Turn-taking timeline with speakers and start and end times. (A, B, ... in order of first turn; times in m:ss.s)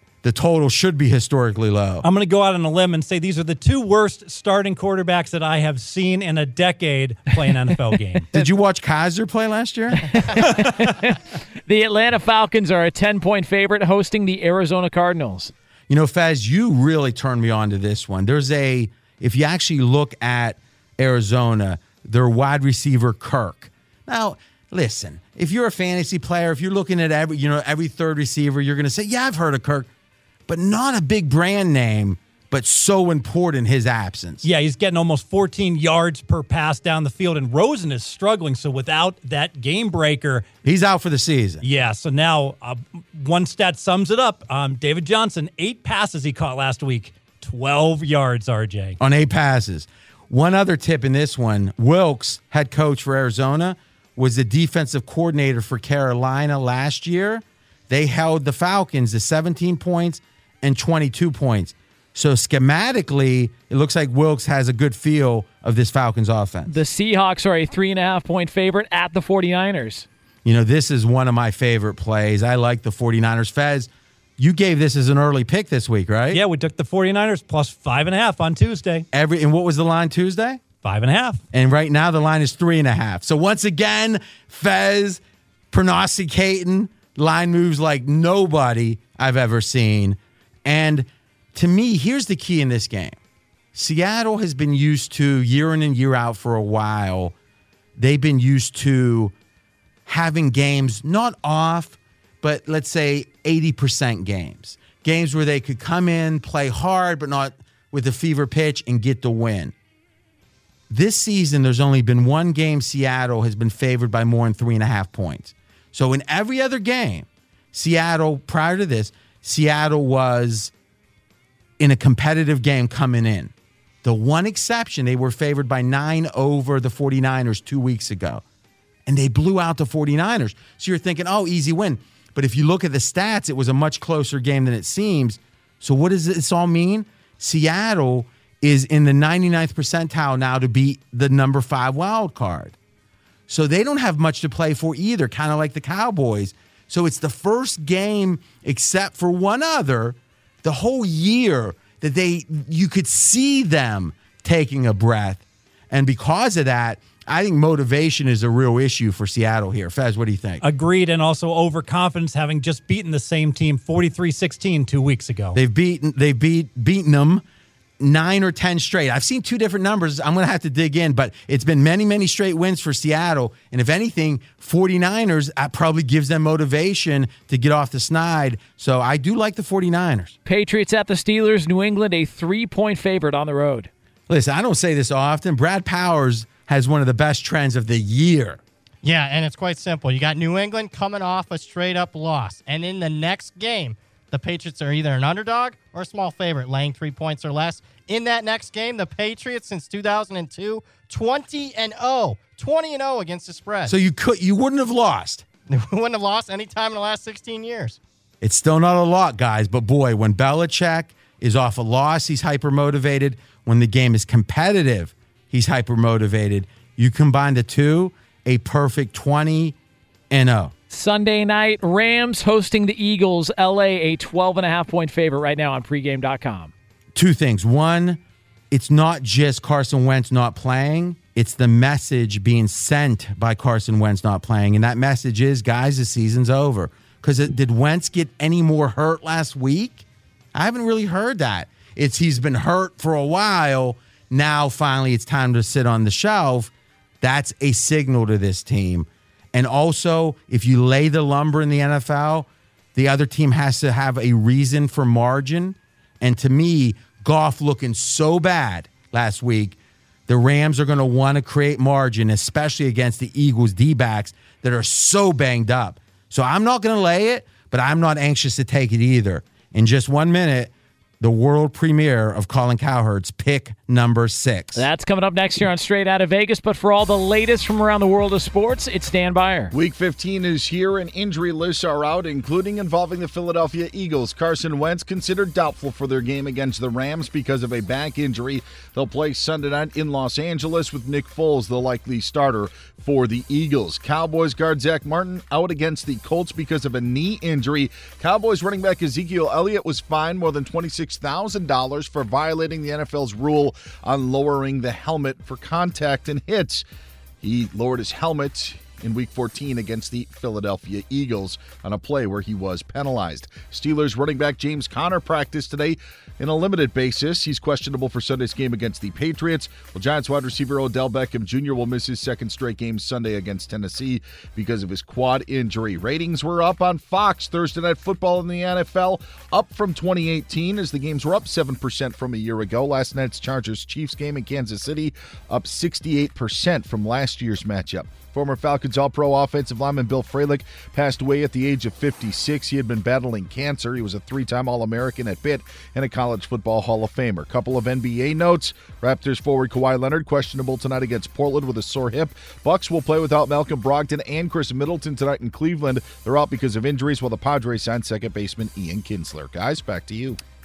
0:00.2-0:02.1 A
0:02.0-0:08.5 B
0:08.3-0:10.2 A
0:10.1-0:15.5 C
0:15.9-0:29.9 A
0:30.5-0:34.4 A
0:34.4-0:40.5 B
0:40.6-0:41.6 A
0:41.6-0:49.0 B
0:49.0-1:06.7 A
1:06.7-1:10.1 C
1:10.4-1:16.4 A
1:16.3-1:19.1 B
1:19.1-1:20.6 A
1:20.8-1:21.4 B
1:21.5-1:33.2 A
1:33.7-1:37.3 A
1:38.0-1:39.3 A
1:40.1-1:49.7 A
1:50.9-2:00.7 A
2:01.8-2:03.5 A
2:04.0-2:08.4 A
2:09.1-2:22.8 A
2:23.5-2:40.6 A
2:40.6-2:45.6 B
2:45.6-2:47.4 A
2:48.0-3:00.4 A
3:00.5-3:03.9 C
3:04.3-3:08.6 A
3:09.0-3:24.0 D
3:23.9-3:25.4 A
3:25.7-3:28.0 D
3:28.4-3:39.8 A
3:40.3-3:40.7 A
3:40.9-3:46.7 C
3:47.1-4:34.9 A
4:34.8-4:39.7 C
4:39.7-5:06.8 E
5:07.4-6:00.4 E